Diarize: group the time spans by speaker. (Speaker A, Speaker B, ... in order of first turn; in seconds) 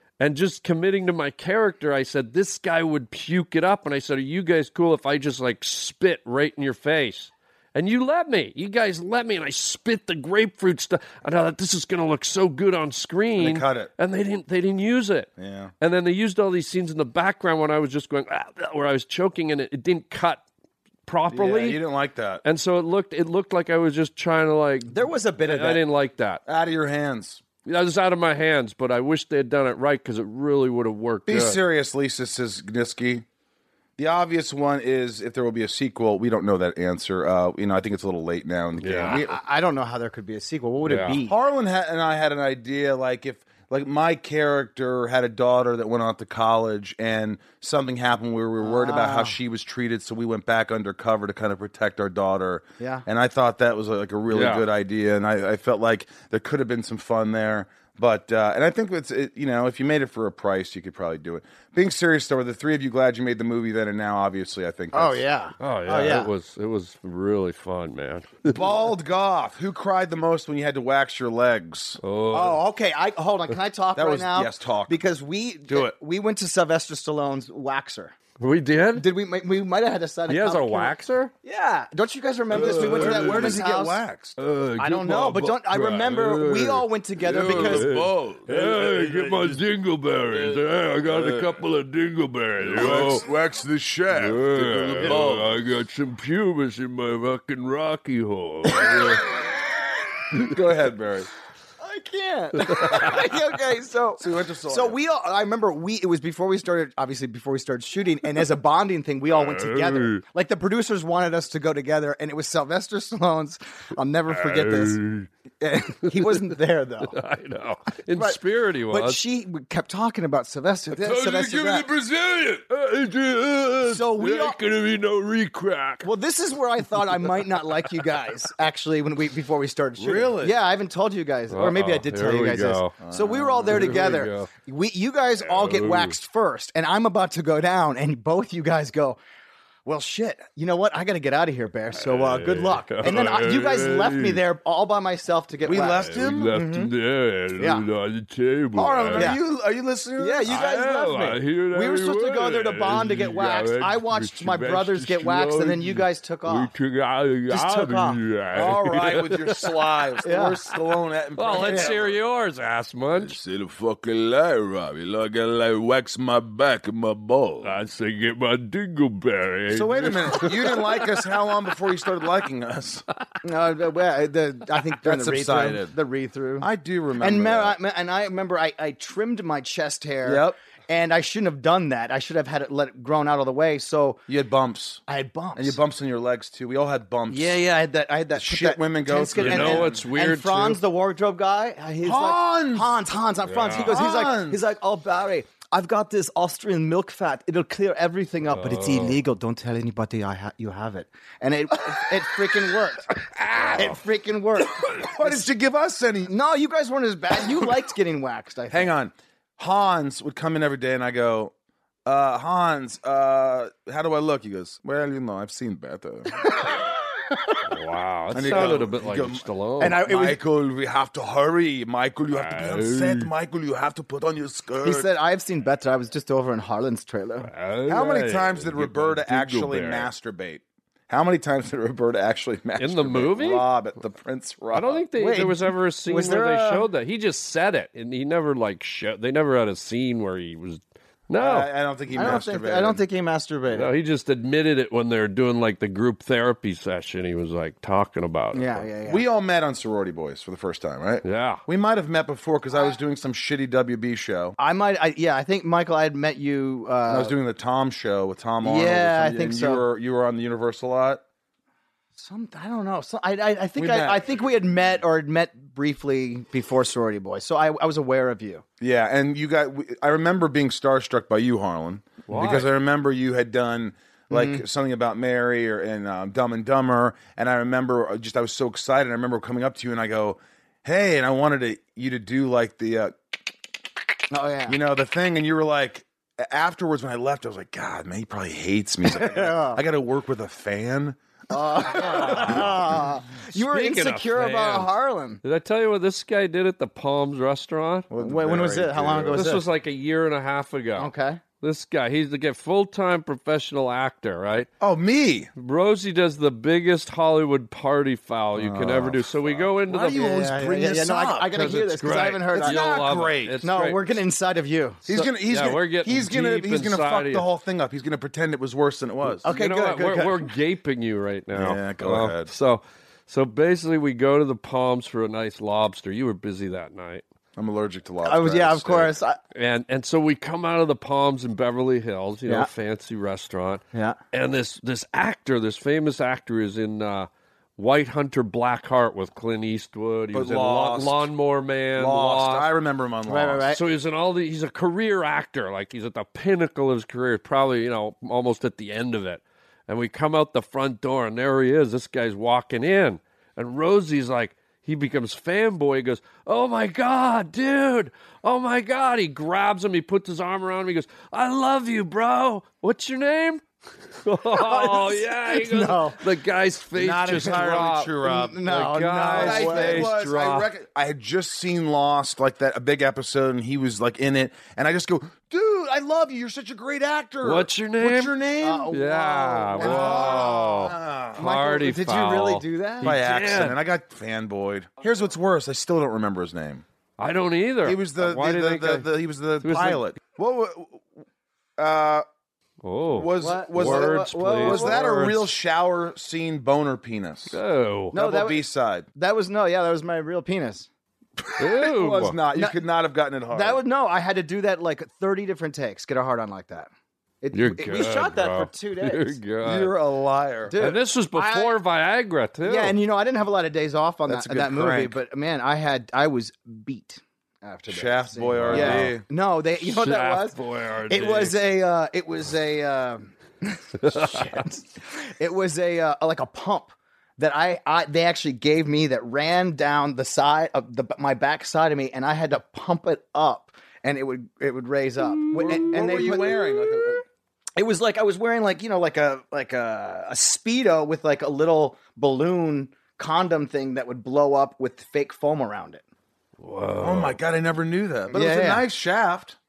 Speaker A: 0.2-20.4, 21.1-21.8, 22.4-26.4, 27.7-31.6, 38.8-39.2, 40.9-41.2, 54.3-54.6, 65.6-68.6, 72.0-72.6, 78.4-79.1, 80.3-81.3, 82.5-83.6, 84.4-93.2, 94.1-99.2, 102.6-103.1, 109.3-110.2, 114.3-115.3, 117.1-119.2, 121.0-126.1, 131.5-132.9, 133.7-134.5, 135.4-136.2, 141.9-144.4, 145.7-149.3, 150.5-159.9, 161.4-163.4, 167.6-171.2, 189.4-190.8, 193.5-194.0, 198.5-199.2, 203.4-204.0, 217.7-220.0, 222.3-223.3, 227.4-230.1, 232.8-233.7, 234.7-241.7, 243.7-248.8, 251.2-251.6, 272.3-272.7, 292.3-292.7, 293.5-294.9, 295.4-298.1, 299.4-304.7, 305.6-310.3, 311.5-314.0, 315.1-317.5, 319.4-327.2, 329.6-342.7, 343.7-363.6, 364.2-370.7, 377.4-378.3, 378.9-383.8, 387.2-389.1, 389.6-390.1, 392.8-395.4, 397.5-398.1, 401.6-402.4, 407.5-409.9, 410.8-413.0, 418.6-419.2, 419.8-421.6, 424.0-424.6, 446.6-447.4
Speaker B: 13.4-13.9, 15.4-15.7, 21.3-22.4, 26.5-27.4, 31.3-33.2, 34.0-39.3, 41.3-65.2, 68.5-72.0, 74.0-75.0, 75.7-75.9, 82.5-84.4, 87.2-89.6, 90.3-91.6, 92.6-95.6, 100.3-101.3, 104.2-105.0, 130.0-130.6, 133.0-134.1, 145.7-146.7, 148.8-150.6, 158.5-162.2, 163.2-167.7, 169.7-173.1, 175.0-175.9, 176.6-177.8, 180.2-180.6, 184.3-185.0, 185.6-187.6, 188.3-190.0, 192.0-193.0, 193.6-194.6, 203.6-203.8, 205.0-206.3, 208.7-211.5, 212.1-216.4, 218.3-225.1, 227.9-235.0, 241.4-243.0, 249.1-254.6, 257.1-261.2, 263.8-264.2, 268.8-283.4, 284.7-291.2, 291.8-292.7, 298.1-299.5, 304.8-305.5, 308.6-311.6, 312.5-313.6, 315.1-319.5, 321.6-322.5, 327.6-329.1, 340.3-341.3, 342.0-343.7, 367.0-368.6, 369.3-378.9, 379.8-381.4, 383.0-386.8, 387.9-391.1, 391.8-392.2, 393.1-397.6, 398.1-399.1, 401.4-403.8, 409.6-410.8, 414.3-415.2, 417.9-419.2, 435.5-437.2, 447.0-449.6
Speaker C: 24.9-25.8, 39.1-41.4, 48.6-49.4, 52.8-53.1, 64.9-66.3, 72.3-78.1, 79.0-84.0, 84.8-87.9, 98.8-99.2, 101.8-115.0, 115.6-117.2, 118.1-118.4, 118.9-121.9, 123.8-124.6, 126.0-139.2, 139.8-146.9, 147.6-147.8, 149.2-149.4, 150.2-156.7, 157.5-158.2, 160.2-160.6, 161.6-162.0, 173.4-176.7, 177.2-184.2, 185.1-185.8, 187.3-203.1, 203.8-205.5, 206.3-208.9, 218.4-218.7, 219.8-220.4, 224.8-227.5, 235.2-236.9, 242.1-243.9, 248.5-249.2, 254.6-257.3, 258.6-259.9, 262.2-268.6, 274.3-274.6, 284.3-284.8, 289.1-289.8, 291.5-295.4, 298.2-299.6, 301.0-301.4, 310.1-312.8, 313.6-315.0, 319.4-320.5, 328.2-329.4, 333.9-334.2, 343.3-343.8, 364.5-366.2, 368.2-370.1, 378.6-383.1, 393.4-395.1, 398.1-400.9, 403.5-406.9, 407.4-409.4, 410.7-411.8, 412.6-420.6, 421.1-437.2, 437.8-446.0, 448.3-448.8